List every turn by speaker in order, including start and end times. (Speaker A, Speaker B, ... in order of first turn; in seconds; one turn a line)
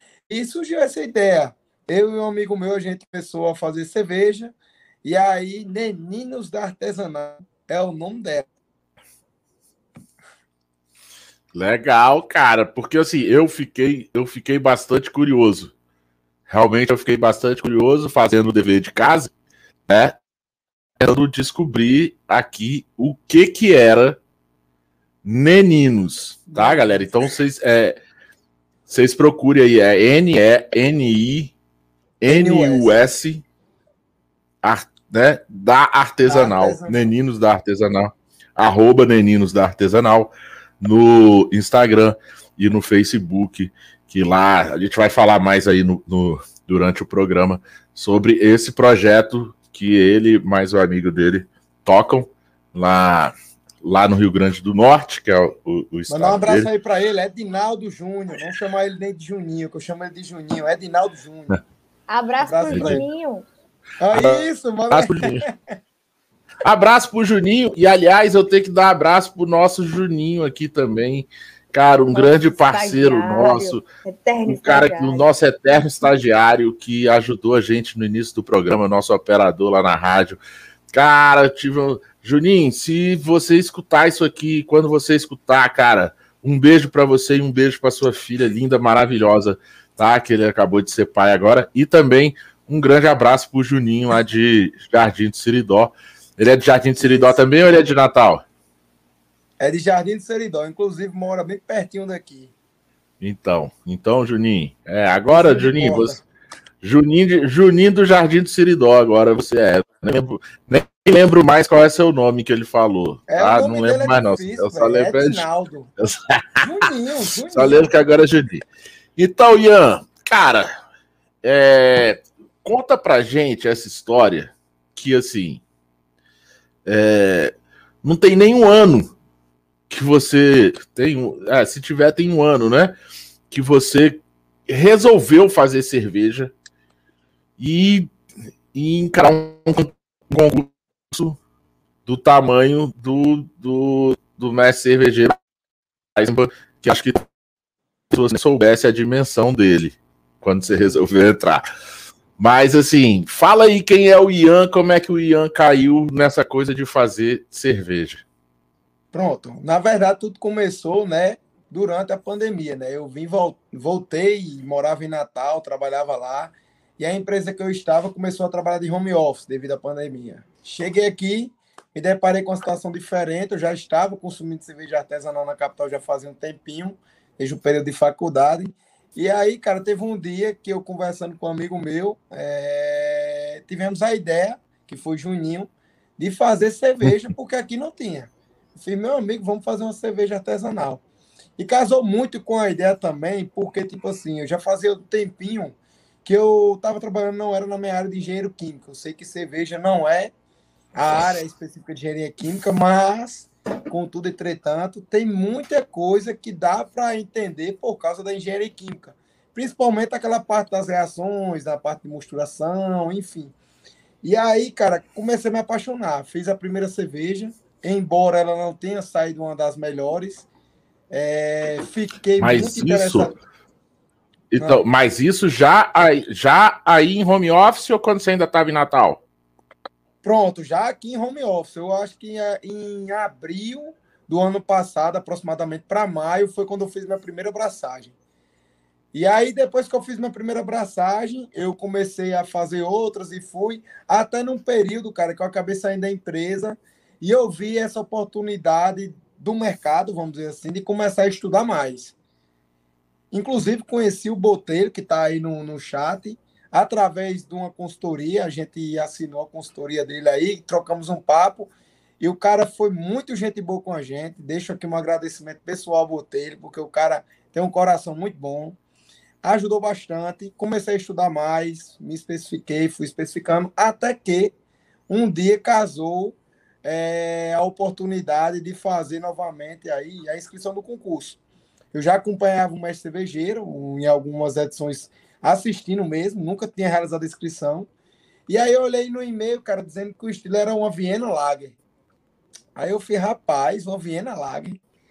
Speaker A: 0.3-8.5
Speaker B: 11.5-15.7
Speaker B: 16.5-19.3
Speaker B: 19.9-20.2
Speaker B: 21.0-24.2
Speaker B: 25.2-28.0
Speaker A: 26.5-27.3
Speaker B: 28.9-31.5
Speaker B: 32.2-33.4
Speaker A: 32.3-33.0
Speaker B: 34.6-56.7
Speaker A: 36.3-37.1
Speaker A: 56.1-61.6
Speaker C: 62.1-63.5
Speaker A: 62.4-63.1
Speaker B: 62.7-63.0
Speaker A: 64.0-65.6
Speaker B: 64.1-65.5
Speaker B: 66.6-73.8
Speaker C: 72.1-75.3
Speaker B: 74.5-80.4
Speaker B: 80.9-98.4
Speaker A: 97.0-97.4
Speaker A: 99.6-102.5
Speaker B: 103.2-106.2
Speaker A: 105.3-106.2
Speaker B: 106.8-115.5
Speaker A: 113.3-115.9
Speaker B: 116.0-116.6
Speaker A: 116.6-117.8
Speaker B: 117.4-118.7
Speaker B: 119.2-120.7
Speaker B: 121.4-125.6
Speaker B: 126.9-129.1
Speaker B: 129.9-132.9
Speaker B: 133.5-136.5
Speaker B: 137.6-138.1
Speaker B: 138.7-141.4
Speaker B: 142.1-145.4
Speaker B: 146.2-147.2
Speaker B: 148.1-151.6
Speaker B: 152.4-158.2
Speaker A: 159.1-191.0
Speaker A: 191.6-200.3
Speaker A: 200.9-213.5
Speaker A: 214.2-220.5
Speaker A: 221.1-223.4
Speaker B: 222.4-223.3
Speaker B: 224.5-229.2
Speaker A: 230.2-238.1
Speaker A: 239.1-252.2
Speaker A: 253.3-268.8
Speaker A: 269.4-274.5
Speaker A: 275.1-281.4
Speaker A: 281.9-287.9
Speaker A: 288.5-291.8
Speaker A: 292.8-294.8